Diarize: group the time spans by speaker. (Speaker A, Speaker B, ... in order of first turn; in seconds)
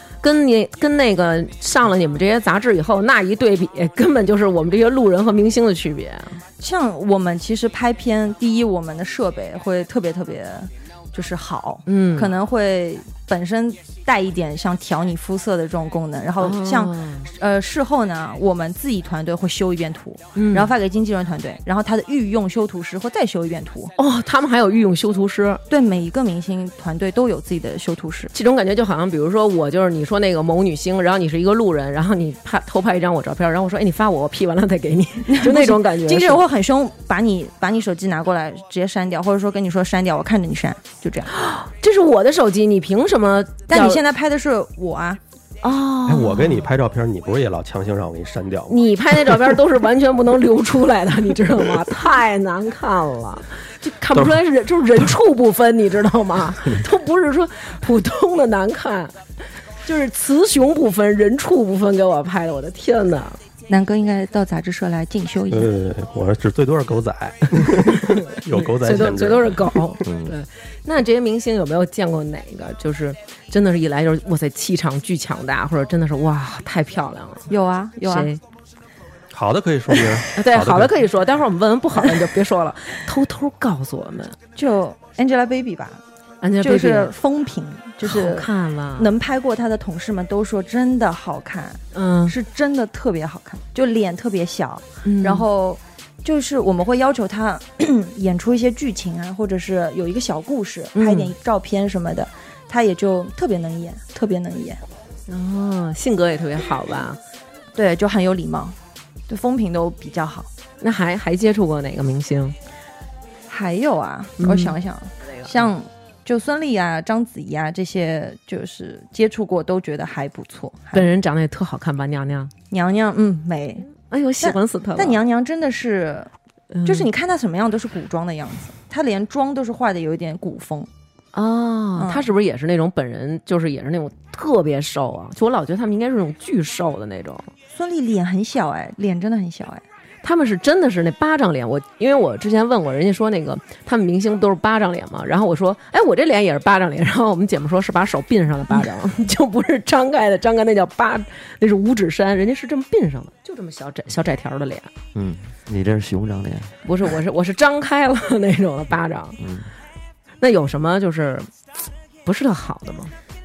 Speaker A: 0.2-6.4, 11.9-12.3, 16.4-17.3, 20.4-20.7, 24.0-25.6, 28.3-36.4, 41.3-44.0, 45.6-46.7, 48.7-59.1, 59.8-63.4, 68.6-77.5, 78.0-78.4, 80.3-84.4, 86.4-87.1, 88.0-89.1, 91.9-92.3, 95.0-95.5, 101.0-101.3, 105.3-107.2, 110.8-112.5, 114.4-114.8, 120.9-122.5, 124.1-125.2, 126.7-127.1, 131.3-137.5, 140.2-154.9, 156.8-159.4, 160.4-161.5, 162.2-163.1
Speaker B: 6.6-23.9, 25.7-28.3, 35.3-41.3, 43.7-45.2, 63.7-65.7, 77.5-78.3, 84.6-86.0, 86.6-104.8, 107.8-108.8, 109.3-110.5, 113.5-121.1, 122.7-123.9, 124.4-126.3, 126.8-130.9, 132.0-132.3, 137.7-139.8
Speaker C: 46.1-49.3, 65.5-69.8, 79.3-81.0
Speaker D: 70.0-70.3, 155.1-156.7, 159.4-159.7